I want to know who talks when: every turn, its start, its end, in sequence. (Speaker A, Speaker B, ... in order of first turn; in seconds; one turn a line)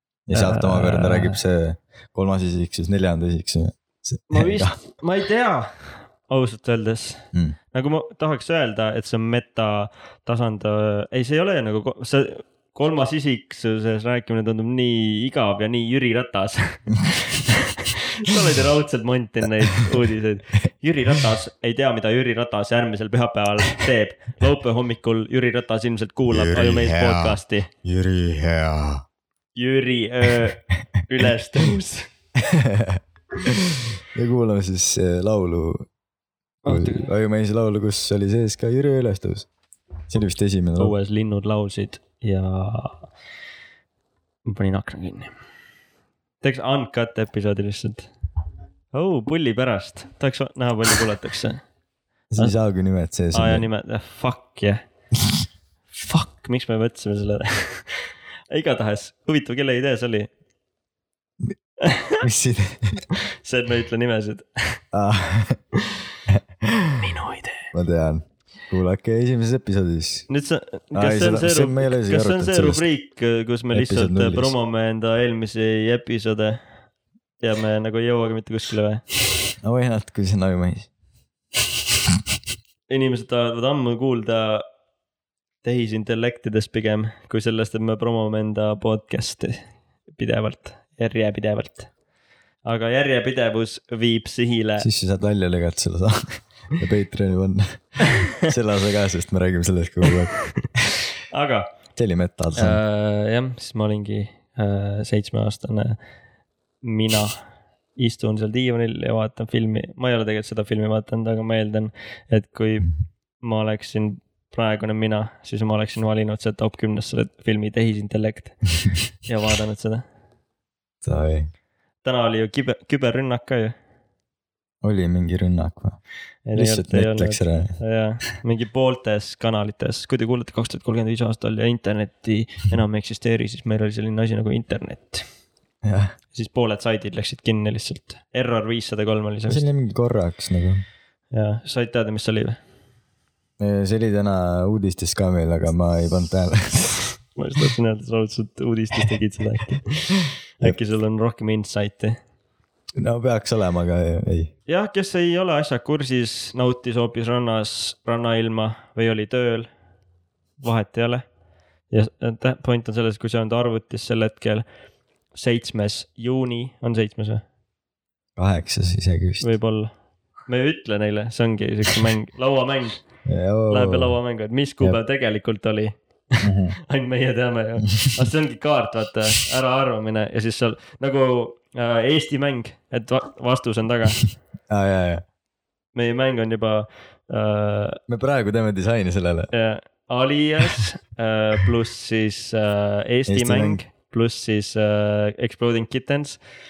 Speaker A: 0.3-4.8
Speaker B: 0.3-1.4
Speaker B: 4.3-27.7
Speaker A: 26.3-29.1
Speaker B: 29.6-32.1
Speaker A: 32.4-35.9
Speaker B: 36.6-37.1
Speaker A: 36.7-39.5
Speaker A: 40.1-41.0
Speaker B: 40.8-43.0
Speaker B: 44.5-45.3
Speaker B: 46.4-48.1
Speaker B: 48.9-51.6
Speaker A: 52.3-53.7
Speaker B: 53.3-54.8
Speaker B: 55.9-60.3
Speaker B: 61.8-62.2
Speaker A: 62.2-63.1
Speaker B: 63.2-64.8
Speaker A: 64.9-65.6
Speaker A: 66.3-67.1
Speaker B: 67.0-67.7
Speaker A: 67.7-70.3
Speaker B: 70.3-76.6
Speaker A: 71.0-72.8
Speaker A: 73.7-74.5
Speaker B: 77.4-79.0
Speaker A: 79.6-80.9
Speaker B: 82.9-84.7
Speaker B: 85.6-91.9
Speaker B: 92.6-94.9
Speaker A: 94.8-100.3
Speaker B: 98.0-98.5
Speaker B: 100.1-100.4
Speaker B: 101.3-101.7
Speaker A: 102.0-102.8
Speaker B: 102.6-106.0
Speaker B: 106.8-107.4
Speaker B: 108.0-118.7
Speaker B: 119.2-120.0
Speaker A: 121.0-121.5
Speaker B: 122.0-123.8
Speaker A: 124.8-126.0
Speaker B: 126.5-135.2
Speaker A: 126.5-127.7
Speaker A: 135.8-136.2
Speaker B: 136.3-139.7
Speaker A: 139.5-140.8
Speaker B: 141.3-142.6
Speaker A: 143.6-147.0
Speaker B: 147.3-152.2
Speaker A: 153.0-154.5
Speaker B: 154.7-159.7
Speaker B: 160.6-161.2
Speaker B: 161.9-164.7
Speaker B: 165.3-167.4
Speaker A: 168.4-169.5
Speaker B: 169.4-169.9
Speaker B: 170.5-173.0
Speaker A: 173.3-174.2
Speaker B: 173.7-184.2
Speaker A: 176.4-176.8
Speaker A: 184.7-185.2
Speaker B: 185.9-188.0
Speaker A: 188.1-189.5
Speaker B: 189.5-196.4
Speaker A: 193.3-193.8